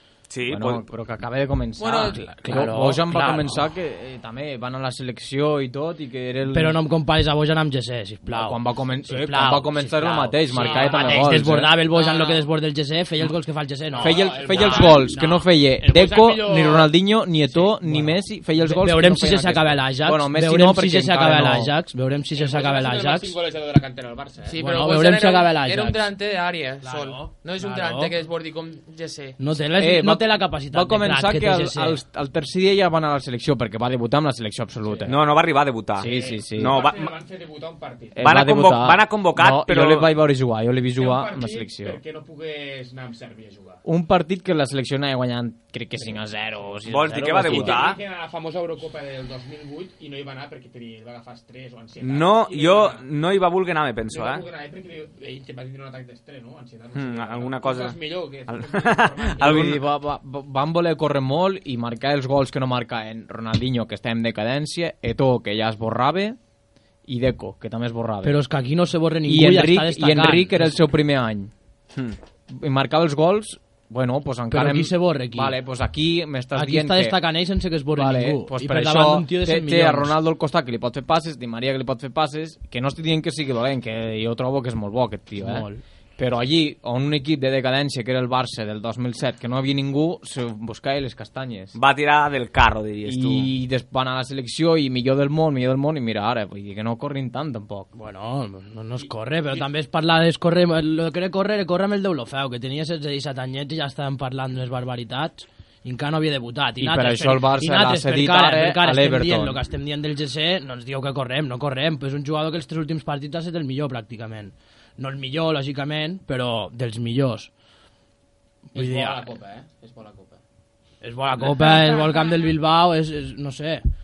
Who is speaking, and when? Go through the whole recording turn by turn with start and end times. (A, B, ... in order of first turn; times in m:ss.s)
0:00.3-0:00.8 A
0:00.5-0:06.8 B
0:01.8-0:02.3 C
0:02.3-0:03.6 D
0:06.5-0:15.4 D
0:08.3-0:11.7 B
0:10.6-0:11.2 E
0:10.6-0:11.0 C
0:11.9-0:12.4 C
0:13.9-0:17.0 E
0:14.0-0:21.7 B
0:17.6-0:17.9 E
0:17.8-0:23.3 D
0:22.3-0:24.6 E
0:24.4-0:29.4 C
0:24.6-0:26.1 D
0:26.8-0:28.2 D
0:29.4-0:32.0 D
0:29.8-0:35.2 B
0:34.8-0:35.1 E
0:35.0-0:37.1 A
0:36.0-0:36.8 B
0:36.0-0:38.4 E
0:38.1-0:42.0 B
0:38.2-0:40.1 A
0:40.9-0:43.8 E
0:43.8-0:47.8 B
0:46.0-0:53.0 E
0:46.9-0:48.0 A
0:52.0-0:54.4 A
0:54.1-0:59.7 E
0:56.9-0:59.8 A
0:59.4-1:06.4 B
1:07.0-1:08.4 B
1:08.2-1:10.8 D
1:09.3-1:11.5 B
1:12.5-1:17.2 B
1:14.5-1:15.6 D
1:16.5-1:20.1 D
1:17.9-1:31.7 B
1:25.4-1:25.8 D
1:31.7-1:33.5 A
1:33.0-1:37.9 B
1:37.9-1:57.5 D
1:39.0-1:39.7 E
1:46.8-1:49.6 B
1:58.7-1:59.3 D
1:58.7-2:00.4 E
2:01.0-2:03.9 D
2:01.4-2:02.1 E